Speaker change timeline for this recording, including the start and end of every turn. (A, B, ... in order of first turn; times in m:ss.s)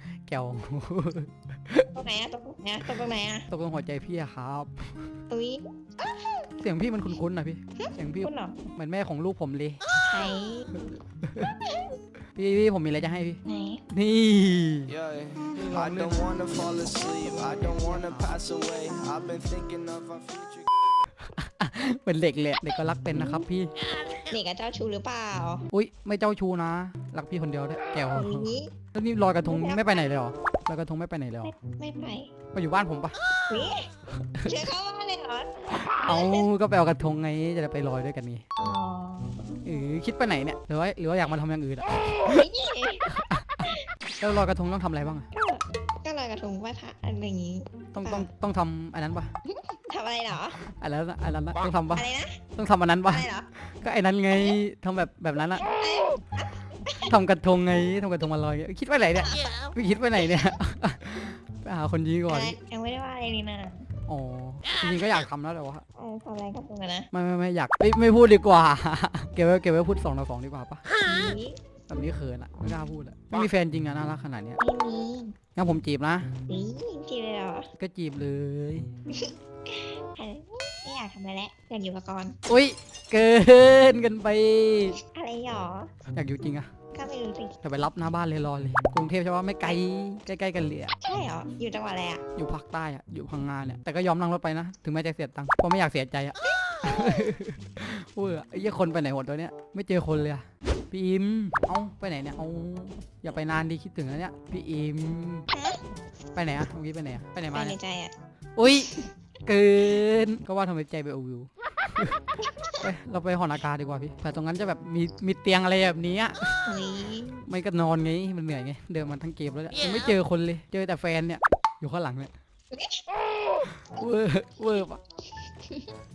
0:00.2-0:02.0 A
0:01.9-0:03.5 B
0:03.5-0:05.1 A
0:05.3-0:06.5 B
0:06.6-0:09.8 A
0:07.8-0:08.6 B
0:10.0-0:10.7 B
0:10.7-0:11.5 A
0:11.7-0:12.0 B
0:12.4-0:15.0 A
0:13.4-0:13.8 B
0:14.9-0:20.7 C
0:15.5-0:16.4 A
0:17.1-0:18.4 A
0:21.3-0:23.7 A
0:23.1-0:23.5 B
0:24.1-0:25.6 B
0:25.7-0:31.6 A
0:28.1-0:28.7 B
0:29.4-0:30.2 B
0:31.4-0:32.3 B
0:32.5-0:33.2 A
0:33.5-0:33.9 B
0:34.4-0:36.5 B
0:35.7-0:38.4 A
0:38.6-0:39.6 B
0:39.6-0:42.5 A
0:42.2-0:43.1 B
0:43.1-0:43.7 A
0:44.2-0:45.3 A
0:45.3-0:48.3 B
0:47.9-0:49.3 A
0:49.5-0:50.6 B
0:50.8-0:55.6 A
0:51.9-0:52.4 B
0:53.0-0:53.5 B
0:55.6-0:57.1 B
0:57.1-1:02.6 A
1:02.3-1:03.9 B
1:04.1-1:05.8 A
1:06.0-1:07.1 B
1:07.1-1:10.8 A
1:11.0-1:11.6 B
1:11.9-1:14.6 A
1:14.6-1:15.4 B
1:15.6-1:16.3 A
1:16.5-1:17.7 B
1:17.8-1:18.9 A
1:19.1-1:22.4 B
1:22.5-1:25.0 A
1:25.1-1:25.9 B
1:26.1-1:26.7 A
1:26.9-1:27.6 B
1:27.6-1:30.9 A
1:31.0-1:32.2 B
1:32.4-1:45.5 A
1:36.8-1:37.3 B
1:45.5-1:45.8 B
1:46.3-1:47.8 A
1:47.5-1:48.1 B
1:48.6-1:49.0 A
1:48.8-1:49.1 B
1:49.5-1:52.2 A
1:52.8-1:56.5 A
1:56.7-1:57.4 B
1:57.5-2:02.3 A
2:02.7-2:03.1 B
2:03.7-2:05.0 A